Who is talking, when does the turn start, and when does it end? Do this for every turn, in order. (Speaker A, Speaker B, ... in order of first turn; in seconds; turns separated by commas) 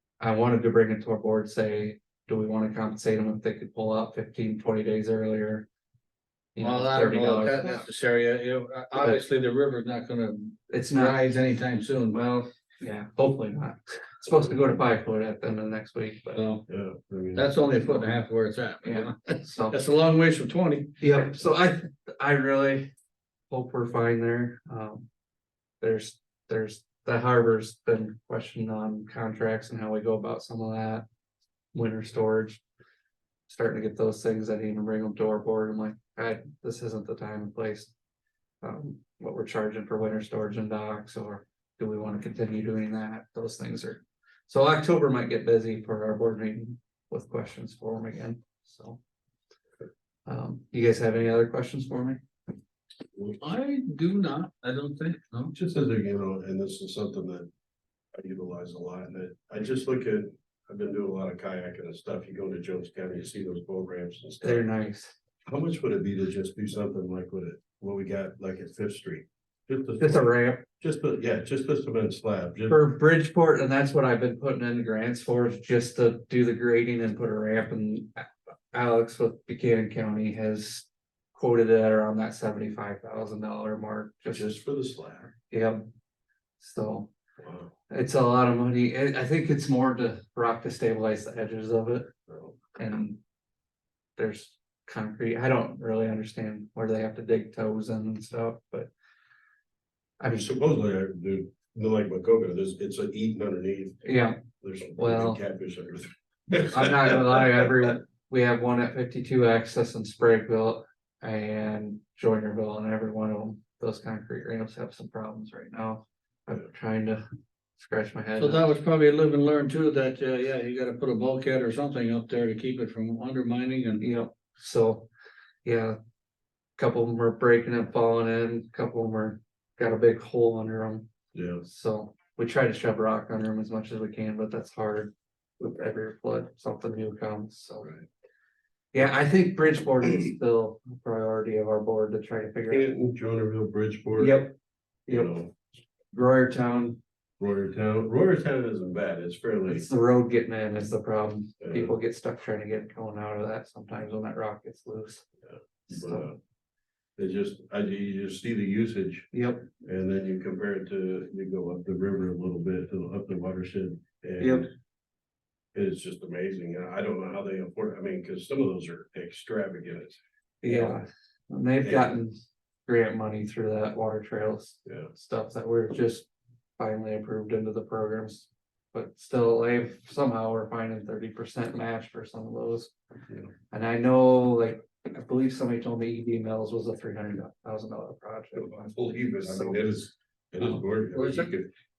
Speaker A: 0.2-5.7, Speaker A: 6.5-7.8, Speaker B: 6.6-12.2, Speaker A: 8.9-9.2, Speaker A: 10.7-11.2, Speaker A: 12.1-16.4, Speaker B: 16.4-16.6, Speaker C: 16.7-17.5, Speaker B: 17.3-21.0, Speaker A: 18.8-19.8, Speaker A: 21.0-22.9, Speaker A: 23.5-25.1, Speaker A: 25.8-31.1, Speaker A: 31.7-32.6, Speaker A: 33.5-37.9, Speaker A: 38.6-49.0, Speaker A: 50.2-52.2, Speaker C: 53.1-53.4, Speaker B: 53.4-55.5, Speaker C: 55.5-57.5, Speaker C: 58.1-64.6, Speaker A: 64.4-65.1, Speaker C: 65.5-72.8, Speaker A: 70.0-70.7, Speaker A: 72.7-84.5, Speaker C: 84.3-85.3, Speaker A: 85.5-85.8, Speaker A: 86.6-87.1, Speaker C: 87.4-87.7, Speaker A: 87.9-92.1, Speaker C: 92.3-92.6, Speaker A: 92.7-93.2, Speaker A: 94.2-98.9, Speaker A: 100.2-100.5, Speaker C: 100.3-107.7, Speaker A: 104.0-104.4, Speaker A: 105.0-105.4, Speaker A: 106.7-117.2, Speaker A: 117.8-118.7, Speaker B: 118.4-124.0, Speaker A: 124.0-125.1, Speaker A: 125.6-126.0, Speaker A: 126.8-131.1, Speaker C: 131.3-131.6, Speaker A: 131.6-137.9, Speaker A: 138.9-142.9, Speaker C: 142.7-144.4, Speaker A: 144.2-144.5, Speaker A: 145.1-145.4, Speaker C: 145.1-145.5, Speaker A: 146.1-147.0, Speaker C: 147.4-149.8, Speaker A: 149.7-155.2, Speaker C: 151.6-151.9, Speaker C: 155.4-156.4, Speaker A: 155.9-156.3, Speaker C: 157.2-159.3, Speaker A: 159.3-159.7, Speaker C: 159.8-164.7, Speaker A: 164.4-164.6, Speaker C: 165.7-171.0, Speaker A: 170.6-182.9, Speaker C: 171.8-172.1, Speaker C: 174.8-175.1, Speaker A: 183.7-190.0, Speaker C: 188.6-191.7, Speaker B: 191.1-191.5